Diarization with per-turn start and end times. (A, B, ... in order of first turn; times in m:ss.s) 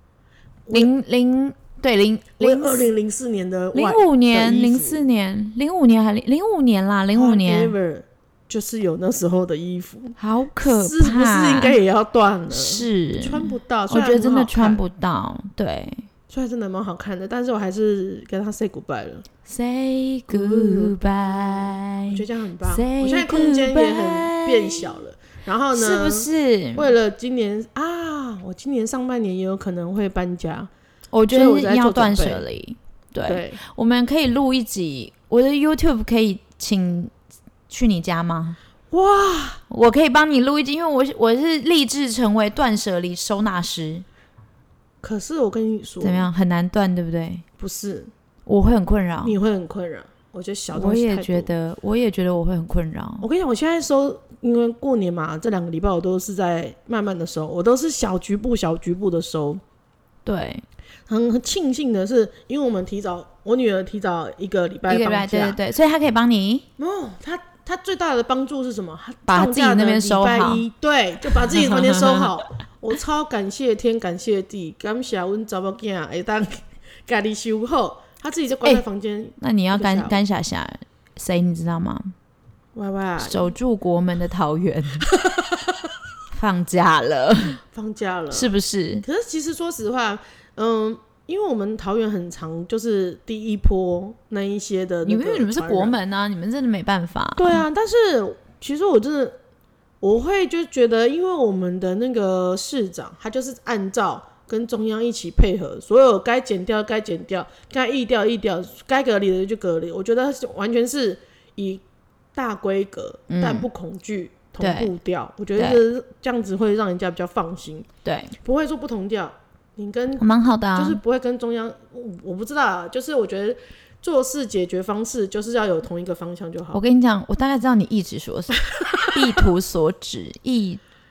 0:00.7-0:00.9 A
0:00.7-0:02.9 B
0:02.4-0:05.0 A
0:03.7-0:07.7 B
0:07.1-0:14.8 A
0:10.2-0:11.8 B
0:12.5-0:16.1 B
0:16.3-0:19.2 A
0:19.5-0:24.8 B
0:20.3-0:30.7 A
0:25.7-0:26.9 B
0:31.1-0:37.1 B
0:31.3-0:32.4 A
0:33.3-0:33.6 A
0:37.7-0:38.6 B
0:38.9-0:39.6 A
0:39.7-0:44.1 B
0:45.0-0:46.3 A
0:46.0-0:47.4 B
0:47.6-0:48.1 A
0:48.5-0:49.4 B
0:49.2-0:51.5 A
0:50.7-0:53.3 B
0:53.2-0:59.6 A
1:00.2-1:00.6 B
1:01.1-1:05.6 A
1:04.9-1:06.7 B
1:06.8-1:20.2 A
1:09.3-1:10.6 B
1:11.4-1:12.3 B
1:19.4-1:22.1 B
1:22.8-1:23.5 A
1:23.2-1:25.0 B
1:25.2-1:25.5 A
1:26.3-1:27.6 B
1:27.7-1:28.5 A
1:28.3-1:29.0 B
1:29.0-1:36.0 A
1:35.0-1:37.6 B
1:37.4-1:39.4 A
1:40.0-1:51.8 A
1:52.4-1:57.9 A
1:53.3-1:53.7 B
1:54.6-1:54.9 B
1:58.0-1:58.3 B
1:58.4-2:06.8 A
2:00.2-2:01.0 B
2:06.7-2:10.8 B